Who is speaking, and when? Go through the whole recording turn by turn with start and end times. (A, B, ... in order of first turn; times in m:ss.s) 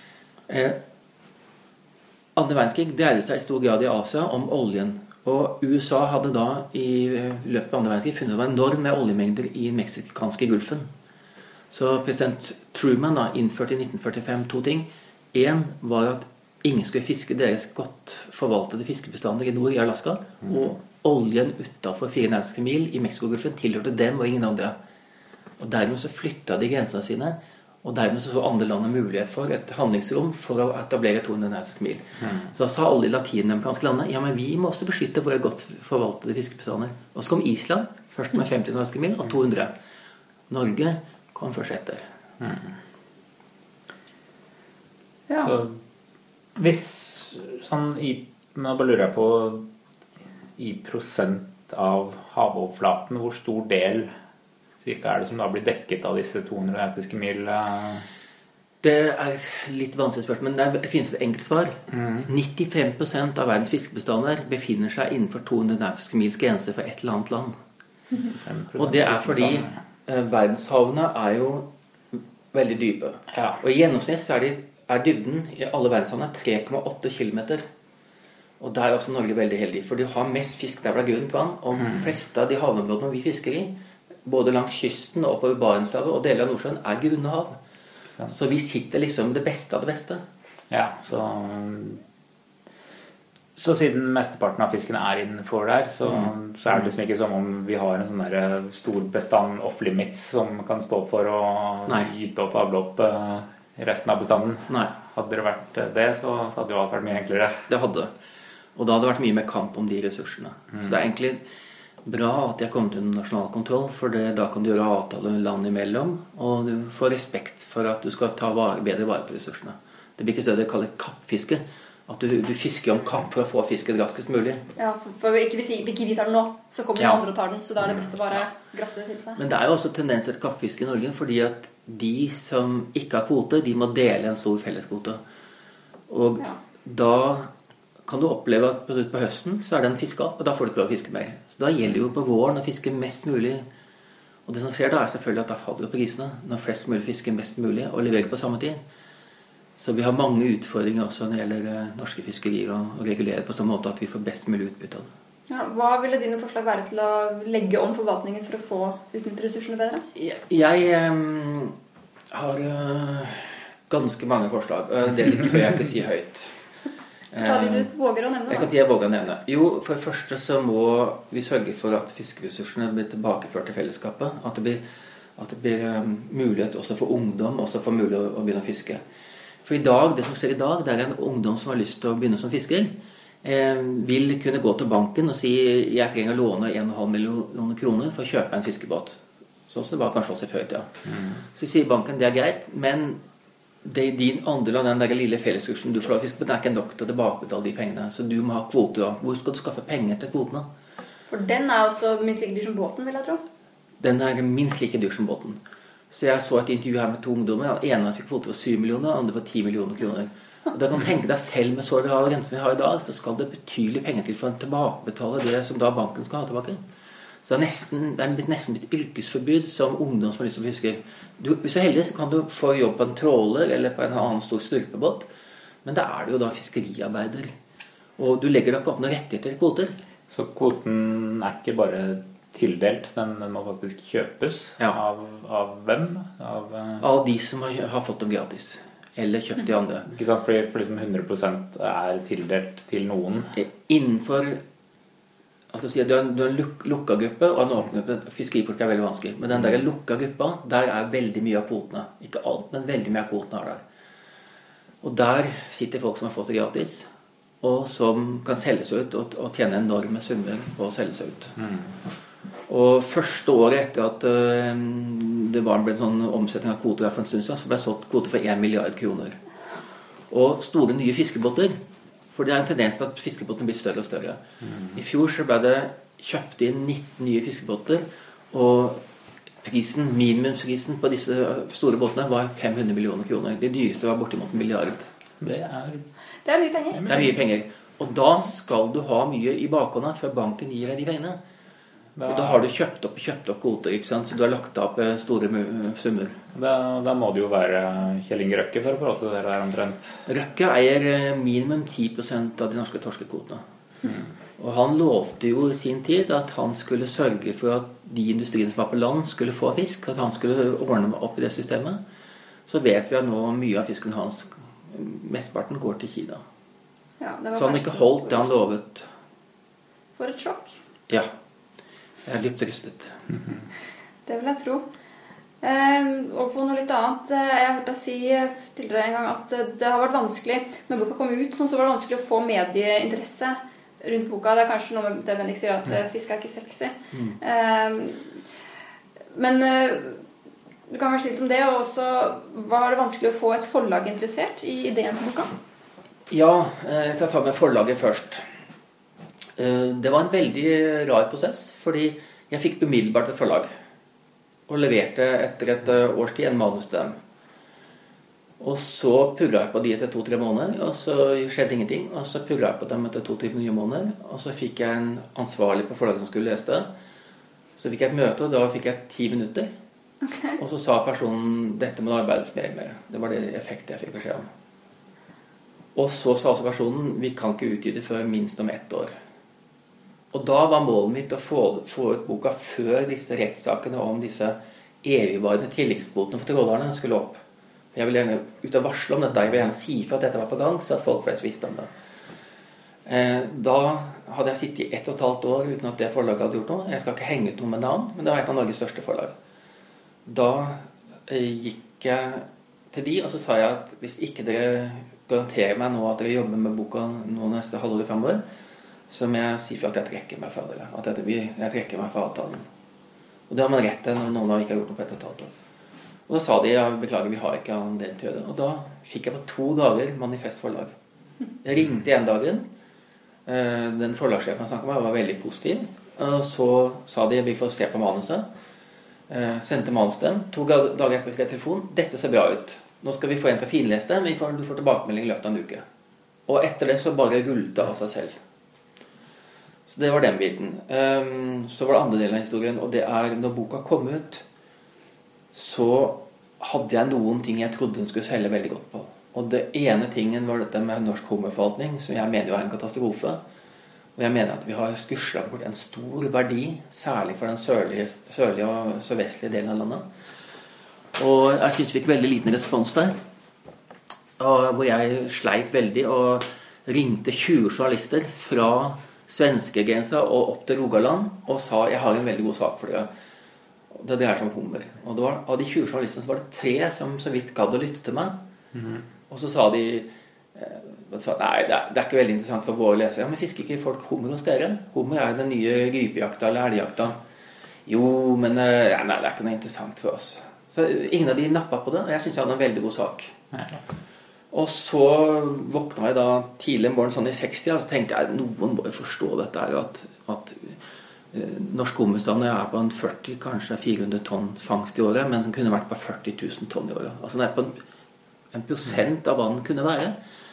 0:00.5-0:00.8 A
0:02.4-0:10.9 A
0:11.7-0:24.8 A
0:25.6-0:39.7 A
0:40.5-0:42.0 A
0:42.4-0:42.7 B
0:45.3-0:45.5 C
0:45.4-0:45.8 B
0:46.6-0:49.7 B
0:50.6-0:54.1 B
0:54.8-0:58.1 B
0:58.8-1:07.6 A
1:01.9-1:02.3 B
1:08.4-1:09.8 B
1:08.8-1:17.6 A
1:13.3-1:13.6 B
1:18.6-1:23.7 A
1:24.2-1:27.6 A
1:28.3-1:30.2 A
1:30.7-1:32.0 B
1:33.6-1:47.7 B
1:41.9-1:42.1 A
1:44.7-1:44.9 A
1:47.7-1:48.1 A
1:48.8-1:51.4 A
1:52.0-2:04.6 A
2:04.8-2:09.4 C
2:09.4-2:15.2 A
2:16.1-2:17.5 A
2:18.1-2:23.6 A
2:24.5-2:28.8 A
2:29.8-2:35.1 A
2:35.5-2:40.0 C
2:40.1-2:41.8 A
2:42.3-2:46.6 A
2:47.3-2:47.9 A
2:47.4-2:48.7 C
2:48.5-2:54.8 A
2:55.4-2:59.0 A
2:59.6-3:10.9 A
3:11.1-3:11.4 B
3:11.5-3:13.2 A
3:13.8-3:20.7 A
3:21.3-3:23.4 C
3:24.0-3:25.6 A
3:26.1-3:36.8 A
3:37.4-3:45.3 A
3:45.8-3:47.5 A
3:48.2-3:50.0 A
3:50.3-3:57.0 B
3:57.0-4:00.1 A
4:00.1-4:03.6 B
4:03.6-4:04.6 A
4:05.7-4:13.8 A
4:15.0-4:17.1 A
4:17.6-4:21.6 A
4:21.6-4:21.9 B
4:22.7-4:29.4 A
4:30.3-4:31.8 A
4:32.3-4:34.4 A
4:34.9-4:39.0 A
4:39.6-4:45.1 A
4:45.4-4:46.1 B
4:46.4-4:47.1 C
4:46.9-4:47.3 B
4:47.1-4:51.4 A
4:52.2-4:52.7 B
4:52.3-4:56.4 A
4:56.5-5:00.2 B
5:00.3-5:03.6 A
5:04.6-5:12.0 A
5:12.7-5:16.4 A
5:17.2-5:18.5 C
5:17.6-5:19.1 A
5:20.2-5:20.8 C
5:22.3-5:23.2 A
5:24.3-5:24.9 C
5:25.6-5:38.4 C
5:39.3-5:40.2 C
5:40.9-5:45.5 C
5:46.3-5:48.4 A
5:49.6-5:53.7 A
5:54.7-5:57.2 A
5:58.6-6:06.9 A
6:07.8-6:09.7 A
6:10.2-6:10.6 C
6:10.6-6:14.5 A
6:16.0-6:19.1 A
6:20.3-6:27.4 A
6:27.9-6:31.9 A
6:33.1-6:39.3 A
6:40.3-6:48.4 A
6:49.1-6:52.6 A
6:53.5-6:55.5 A
6:56.3-7:00.9 A
7:01.6-7:02.7 A
7:03.5-7:08.5 A
7:09.3-7:15.8 A
7:16.5-7:18.4 A
7:19.9-7:24.4 A
7:25.5-7:33.4 A
7:34.2-7:40.1 A
7:41.2-7:43.2 A
7:44.4-7:53.1 A
7:53.9-7:58.4 A
7:58.8-7:59.0 B
7:59.3-8:07.2 A
8:07.9-8:13.3 A
8:13.5-8:13.8 B
8:14.5-8:20.8 A
8:21.3-8:27.8 A
8:28.5-8:30.2 A